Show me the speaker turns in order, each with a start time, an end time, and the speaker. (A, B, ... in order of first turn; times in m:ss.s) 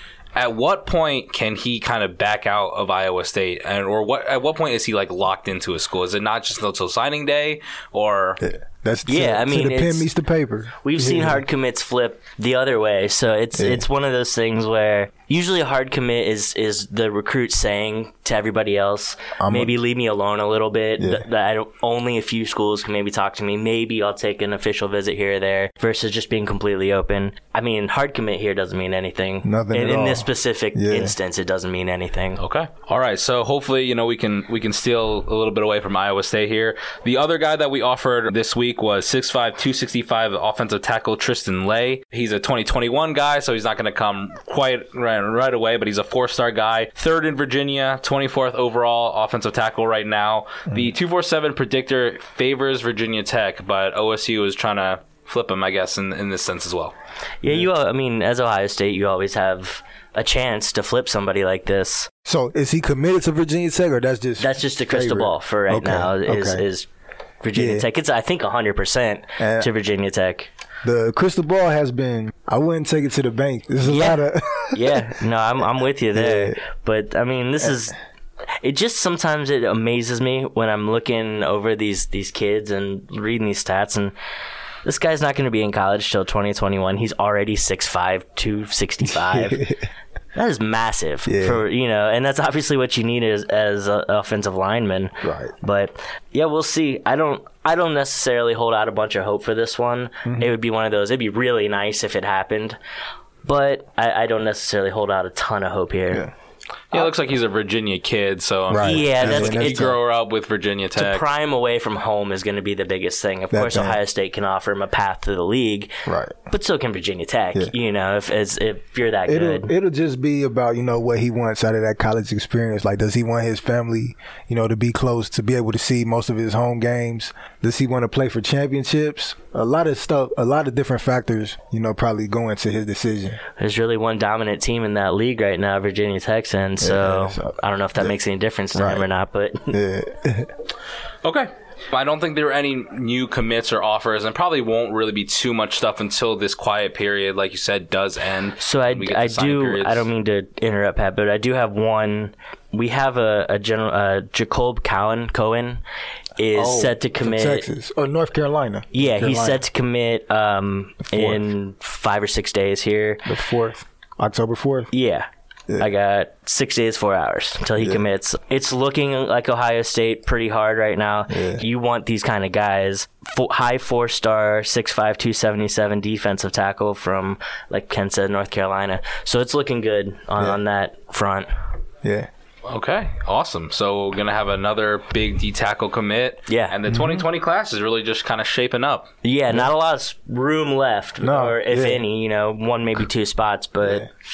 0:00.4-0:08.4 A
0:08.4-0:11.4 B
0:09.1-0:10.1 C
0:10.8-0:32.4 C
0:13.6-0:13.8 B
0:19.4-0:19.8 B
0:21.0-0:21.2 B
0:29.4-0:31.2 B
0:32.4-0:56.9 A
0:57.4-1:02.1 C
1:02.2-1:06.6 B
1:04.4-1:06.8 C
1:07.4-1:10.5 C
1:07.5-1:07.8 B
1:09.4-1:09.7 B
1:10.8-1:15.2 B
1:13.8-1:17.9 C
1:16.1-1:16.6 B
1:18.6-1:24.1 C
1:24.8-1:29.7 C
1:29.1-1:29.9 B
1:30.3-1:42.8 C
1:31.2-1:31.6 B
1:35.2-1:35.5 B
1:40.2-1:40.5 B
1:43.4-1:46.3 C
1:46.9-1:51.2 A
1:48.7-1:50.0 B
1:48.8-1:50.0 C
1:51.0-1:55.9 C
1:53.5-1:54.0 B
1:56.0-1:56.5 B
1:56.5-1:59.7 C
1:59.3-2:13.4 B
2:13.6-2:19.8 C
2:16.8-2:18.1 B
2:18.7-2:19.0 B
2:19.7-2:20.5 B
2:21.2-2:30.0 A
2:28.6-2:35.8 C
2:36.4-2:37.6 C
2:36.5-2:39.6 B
2:38.9-2:43.2 C
2:41.1-2:41.5 B
2:43.2-2:44.9 B
2:44.9-3:01.5 C
2:51.3-2:51.6 B
3:02.0-3:02.3 B
3:02.7-3:09.1 A
3:06.5-3:06.7 C
3:06.9-3:07.2 B
3:09.2-3:14.1 C
3:11.2-3:12.0 B
3:13.8-3:14.1 B